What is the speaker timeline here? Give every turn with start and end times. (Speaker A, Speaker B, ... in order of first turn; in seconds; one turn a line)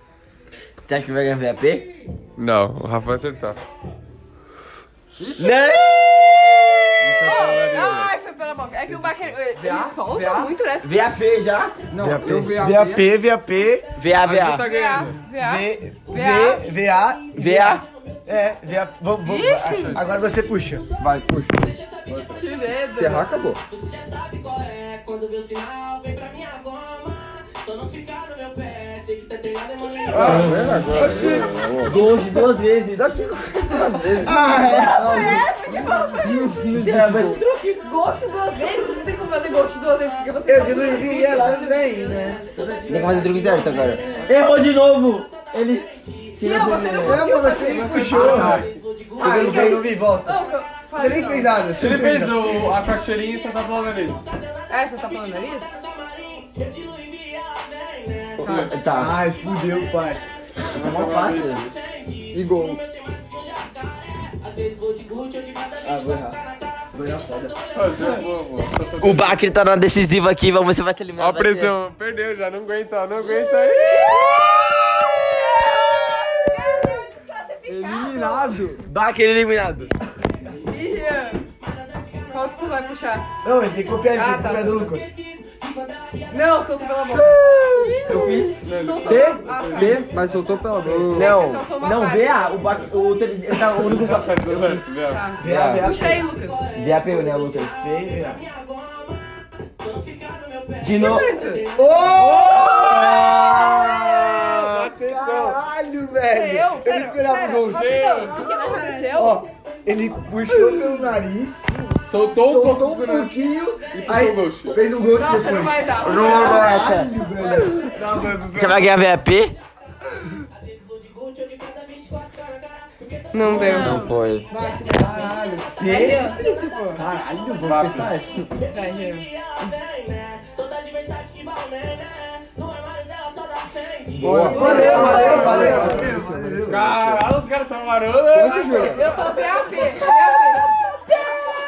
Speaker A: 0.8-1.9
Speaker B: 2.4-3.6
Speaker C: 5.2-5.5
Speaker A: 5.4-6.9
Speaker B: 7.0-8.2
Speaker D: 7.2-11.0
Speaker C: 8.9-10.5
Speaker A: 10.8-11.8
Speaker C: 11.9-13.1
Speaker E: 11.9-13.9
Speaker A: 14.0-14.7
Speaker B: 14.2-15.2
Speaker D: 14.6-16.6
Speaker E: 15.3-20.9
Speaker A: 17.4-17.8
Speaker D: 19.3-20.0
Speaker B: 19.8-20.0
Speaker C: 21.0-21.8
Speaker B: 22.1-22.7
Speaker D: 22.4-23.3
Speaker C: 22.9-23.6
Speaker D: 30.0-30.4
Speaker B: 30.1-32.1
Speaker C: 30.1-31.7
Speaker A: 31.8-35.5
Speaker C: 33.0-37.4
Speaker E: 34.2-35.4
Speaker D: 35.0-36.3
Speaker A: 36.7-37.8
Speaker D: 37.8-42.2
Speaker E: 40.5-42.4
Speaker A: 42.6-47.3
Speaker D: 46.4-48.6
Speaker E: 47.0-50.4
Speaker B: 47.9-48.8
Speaker D: 49.2-51.6
Speaker A: 49.2-49.9
Speaker E: 51.0-52.7
Speaker B: 51.8-54.2
Speaker D: 54.7-55.7
Speaker B: 58.4-58.7
Speaker D: 58.4-58.7
Speaker A: 58.5-59.2
Speaker E: 58.9-60.3
Speaker B: 60.7-61.7
Speaker A: 60.8-61.6
Speaker C: 62.3-62.8
Speaker E: 65.9-66.4
Speaker E: 66.9-67.5
Speaker B: 67.7-69.4
Speaker A: 69.0-71.7
Speaker B: 71.2-74.1
Speaker D: 73.8-78.7
Speaker C: 77.7-78.8
Speaker A: 78.8-79.9
Speaker D: 80.7-81.4
Speaker D: 82.3-83.3
Speaker E: 83.4-85.1
Speaker D: 84.1-84.9
Speaker D: 86.3-87.4
Speaker A: 87.4-88.6
Speaker B: 88.6-90.0
Speaker D: 88.7-90.0
Speaker C: 89.1-91.4
Speaker E: 90.8-91.3
Speaker D: 91.1-92.6
Speaker A: 91.2-94.9
Speaker B: 93.7-95.3
Speaker D: 95.0-96.6
Speaker E: 95.4-96.2
Speaker A: 95.4-95.9
Speaker A: 96.8-97.8
Speaker E: 97.8-98.4
Speaker A: 100.8-101.3
Speaker D: 100.9-104.7
Speaker E: 101.7-108.0
Speaker B: 104.4-105.6
Speaker D: 106.3-109.5
Speaker B: 107.7-108.5
Speaker E: 109.2-111.7
Speaker B: 112.1-113.3
Speaker E: 112.3-118.9
Speaker B: 113.9-114.8
Speaker D: 115.1-116.8
Speaker A: 116.0-117.1
Speaker A: 118.5-119.5
Speaker D: 123.3-127.0
Speaker A: 123.6-124.5
Speaker E: 124.9-126.3
Speaker E: 127.0-128.3
Speaker B: 127.6-128.2
Speaker D: 128.7-129.3
Speaker C: 134.2-137.3
Speaker E: 134.2-137.0
Speaker D: 134.5-136.0
Speaker B: 134.6-139.3
Speaker C: 138.3-139.1
Speaker D: 138.6-140.8